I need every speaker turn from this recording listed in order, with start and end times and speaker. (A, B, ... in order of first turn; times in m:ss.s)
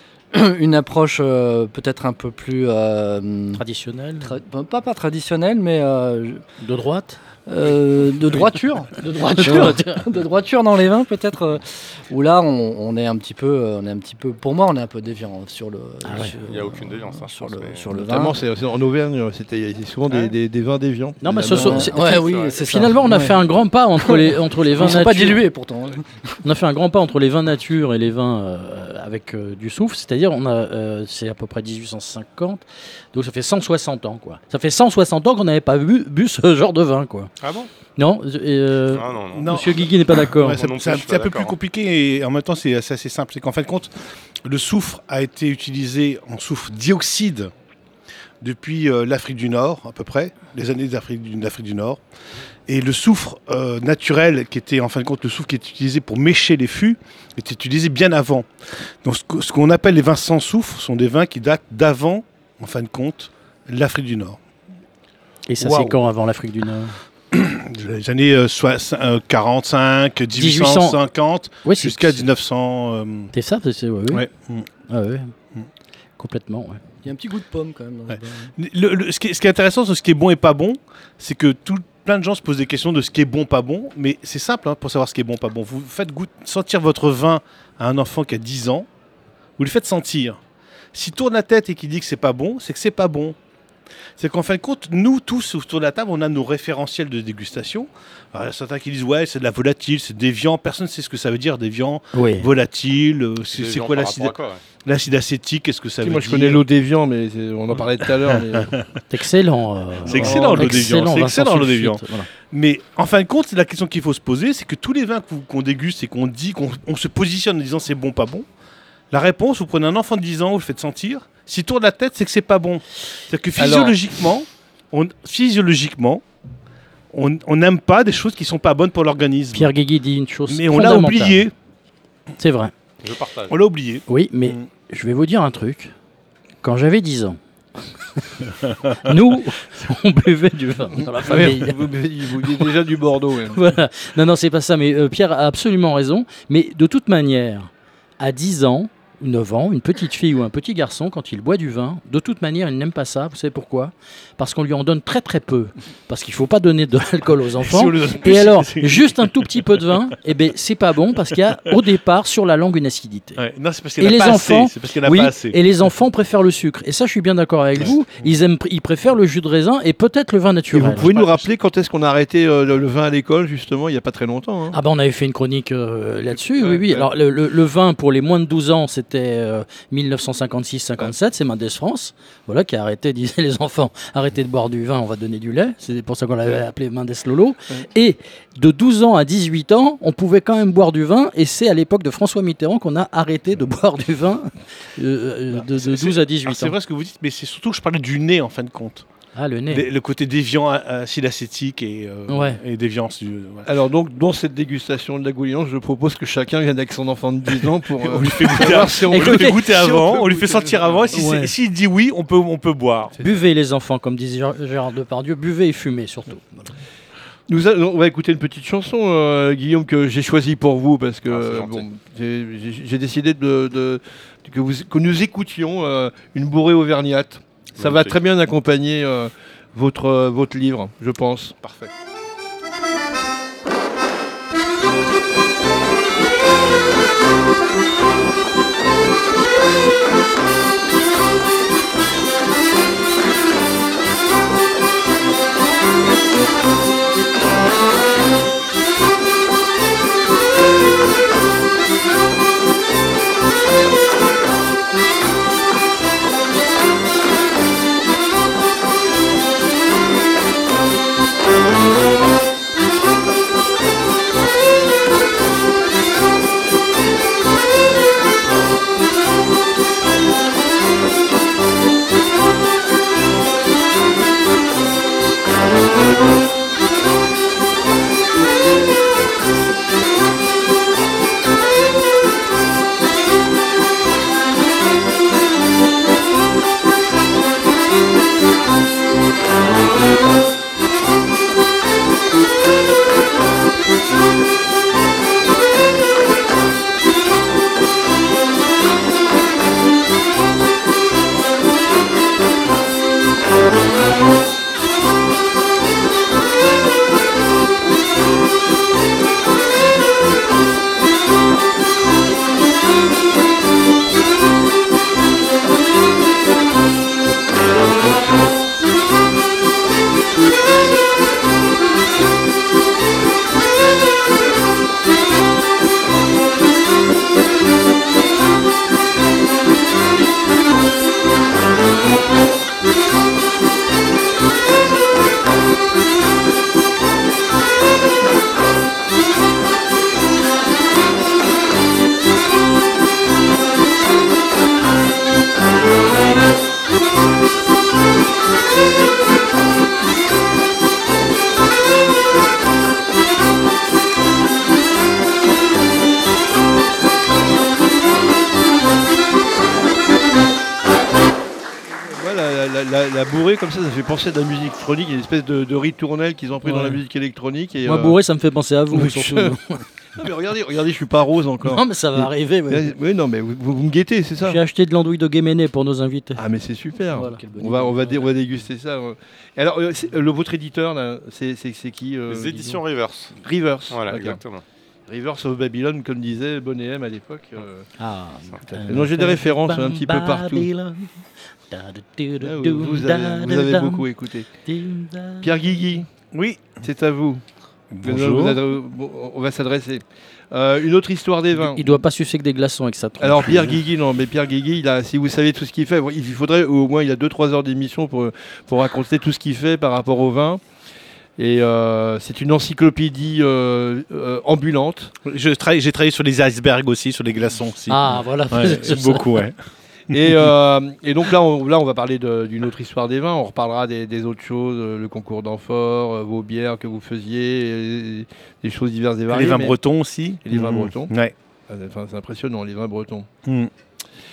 0:00.3-0:03.6 A
0:03.5-0:04.3 B
0:04.2-0:06.4 A
0:06.6-0:07.2 B
0:07.5-0:18.4 A
0:09.0-0:10.0 B
0:16.0-0:16.3 B
0:16.4-0:17.9 C
0:18.0-0:21.9 D
0:21.2-0:25.4 B
0:21.5-0:23.3 A
0:22.0-0:22.6 C
0:24.8-0:26.1 A
0:26.4-0:37.3 B
0:37.4-0:37.7 C
0:38.0-0:40.6 B
0:38.9-0:39.6 C
0:39.3-0:47.5 E
0:40.4-0:41.5 C
0:48.4-0:52.0 E
0:52.7-0:58.5 E
0:59.0-1:04.4 E
1:05.5-1:07.0 B
1:05.6-1:05.9 D
1:07.3-1:13.3 E
1:10.3-1:11.0 B
1:11.6-1:12.2 B
1:13.3-1:14.2 B
1:14.1-1:14.7 E
1:14.9-1:15.3 B
1:16.2-1:16.8 B
1:17.0-1:18.5 A
1:18.1-1:28.9 E
1:29.6-1:30.4 E
1:30.9-1:33.4 E
1:34.2-1:46.6 E
1:42.1-1:42.5 B
1:43.5-1:44.6 C
1:46.0-1:48.7 D
1:48.6-1:48.9 E
1:49.1-1:52.3 B
1:50.1-1:50.8 D
1:50.1-1:58.4 E
1:59.1-2:06.2 E
2:03.6-2:04.0 D
2:07.1-2:09.7 E
2:09.5-2:11.4 B
2:10.5-2:11.5 E
2:12.4-2:12.7 B
2:13.0-2:13.6 C
2:13.5-2:14.6 E
2:14.1-2:15.9 B
2:16.6-2:17.4 B
2:18.2-2:21.8 B
2:21.1-2:23.6 D
2:22.4-2:22.7 B
2:23.5-2:43.4 B
2:37.6-2:39.2 E
2:43.4-2:45.6 E
2:44.0-2:51.1 B
2:50.7-2:54.8 D
2:51.0-2:51.5 C
2:54.7-3:16.7 B
2:56.6-2:57.1 D
3:15.8-3:19.0 E
3:19.3-3:19.8 B
3:19.7-3:23.7 E
3:22.3-3:22.6 B
3:23.6-3:31.0 D
3:28.0-3:33.2 E
3:29.0-3:29.6 B
3:31.1-3:31.5 B
3:33.2-3:36.7 B
3:37.5-3:51.5 D
3:41.3-3:41.8 C
3:47.8-3:48.1 C
3:51.6-3:51.9 C
6:02.1-6:08.2 D
6:06.6-6:07.0 B
6:07.8-6:09.8 B
6:08.9-6:09.6 D
6:10.2-6:14.6 D
6:11.6-6:12.9 B
6:14.4-6:16.4 B
6:16.4-6:22.8 D
6:17.1-6:17.4 B
6:17.1-6:18.2 A
6:22.3-6:23.4 C
6:23.4-6:24.4 D
6:23.9-6:24.6 C
6:25.1-6:27.9 D
6:28.0-6:34.1 B
6:28.8-6:30.7 D
6:32.4-6:34.5 D
6:34.6-6:35.6 B
6:35.4-6:36.0 D
6:36.3-6:36.8 E
6:36.8-6:37.4 D
6:37.9-6:38.6 E
6:38.0-6:41.8 D
6:41.5-6:43.8 B
6:43.2-6:50.6 D
6:51.4-6:55.1 D
6:55.2-6:59.6 E
6:57.9-6:59.4 B
7:00.1-7:09.7 D
7:00.1-7:00.5 E
7:09.3-7:11.3 E
7:10.4-7:11.1 D
7:11.7-7:13.3 D